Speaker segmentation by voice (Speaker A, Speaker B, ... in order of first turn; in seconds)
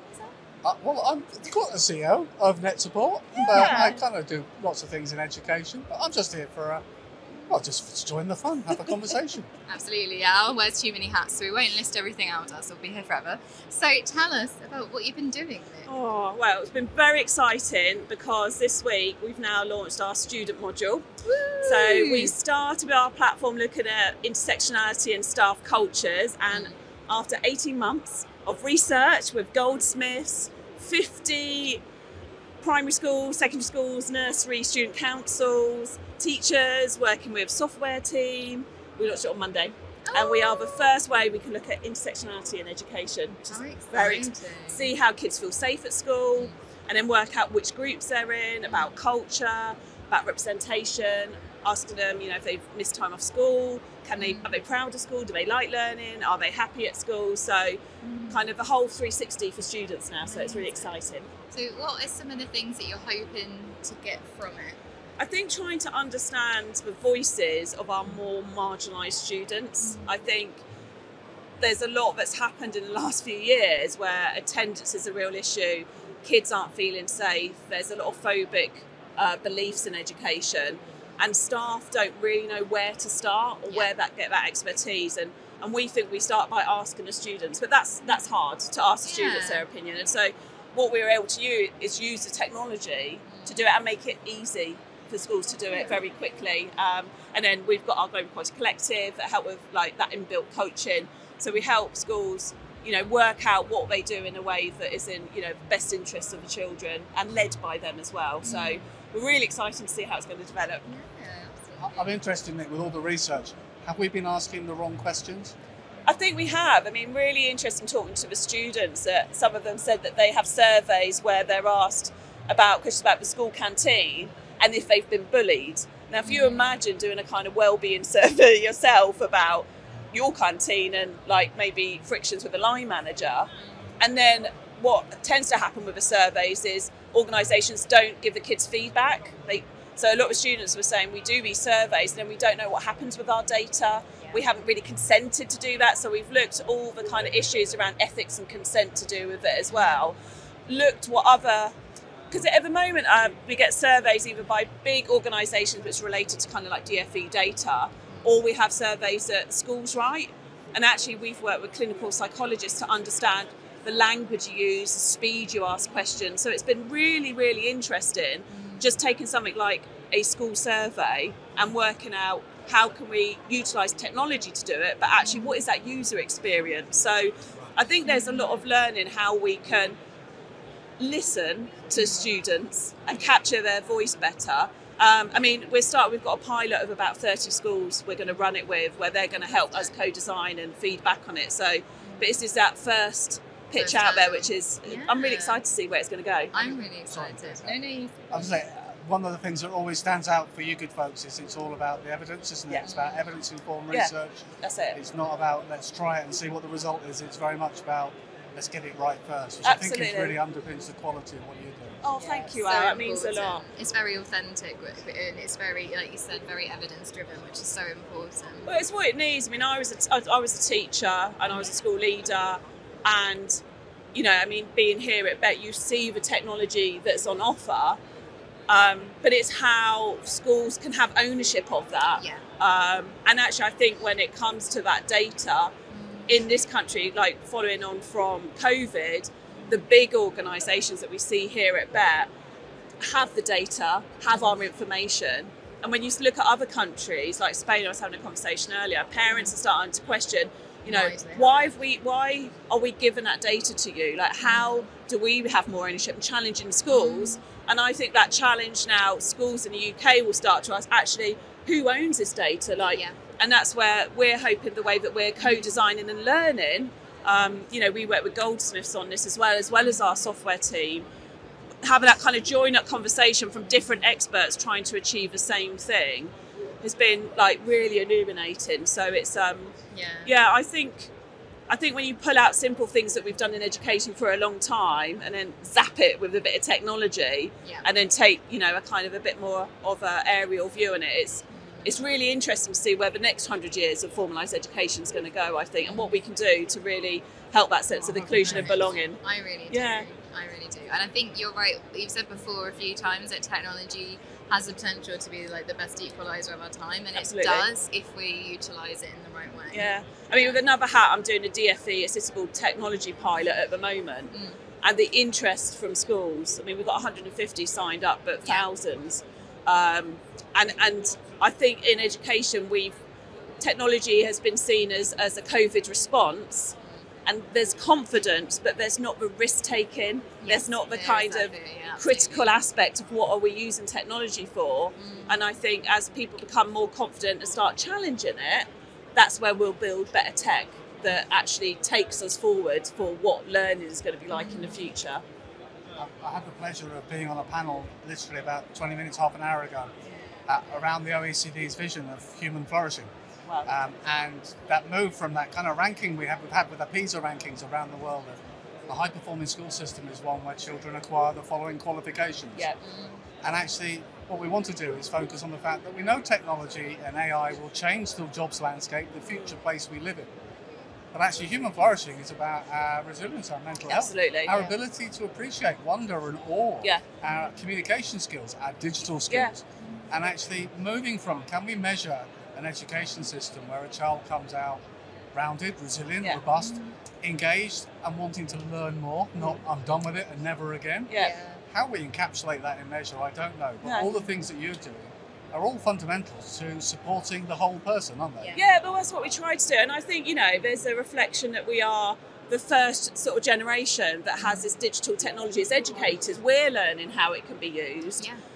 Speaker A: 0.6-6.8, 7.5-9.5, 111.8-115.5, 197.1-197.8, 198.3-212.0, 298.0-298.9, 346.0-349.9, 350.5-353.1, 353.6-362.7, 363.4-370.3, 371.1-384.8, 385.3-398.6
Speaker B: 3.5-4.0, 15.9-21.1, 21.6-31.8, 32.6-61.3, 65.2-70.6, 71.6-110.8, 116.1-150.2, 150.7-151.7, 152.3-180.0, 181.0-196.7, 203.9-205.0, 209.6-210.4, 212.0-213.6, 218.7-223.6, 224.1-228.0, 228.7-235.7, 236.3-242.3, 243.0-271.1, 271.8-281.1, 281.7-300.1, 307.1-307.7, 309.7-322.9, 323.6-345.2, 353.5-353.7, 373.9-374.6, 379.3-379.5, 391.1-391.4, 393.8-394.2, 398.6-408.3
Speaker C: 9.7-15.9, 21.2-22.4, 26.5-26.8, 40.0-40.9, 43.4-44.9, 48.7-49.0, 54.2-54.6, 58.0-58.5, 60.2-60.9, 61.5-64.8, 69.8-70.1, 89.0-89.7, 93.3-93.7, 108.4-108.8, 110.8-112.2, 126.2-126.7, 149.7-150.1, 158.1-158.4, 168.5-168.9, 175.2-175.6, 178.1-178.5, 192.0-192.3, 193.8-195.6, 196.5-198.6, 202.8-203.3, 212.1-218.7, 232.1-232.4, 235.9-236.4, 239.5-239.8, 250.9-251.7, 254.4-254.9, 256.9-257.4, 262.8-263.2, 265.4-265.7, 279.9-280.4, 287.6-287.9, 291.5-292.0, 295.8-296.2, 298.3-310.6, 314.3-314.6, 330.4-332.6, 335.0-335.4, 344.3-344.9, 362.8-363.2, 386.6-386.9, 391.2-391.6, 398.4-398.7, 404.4-404.7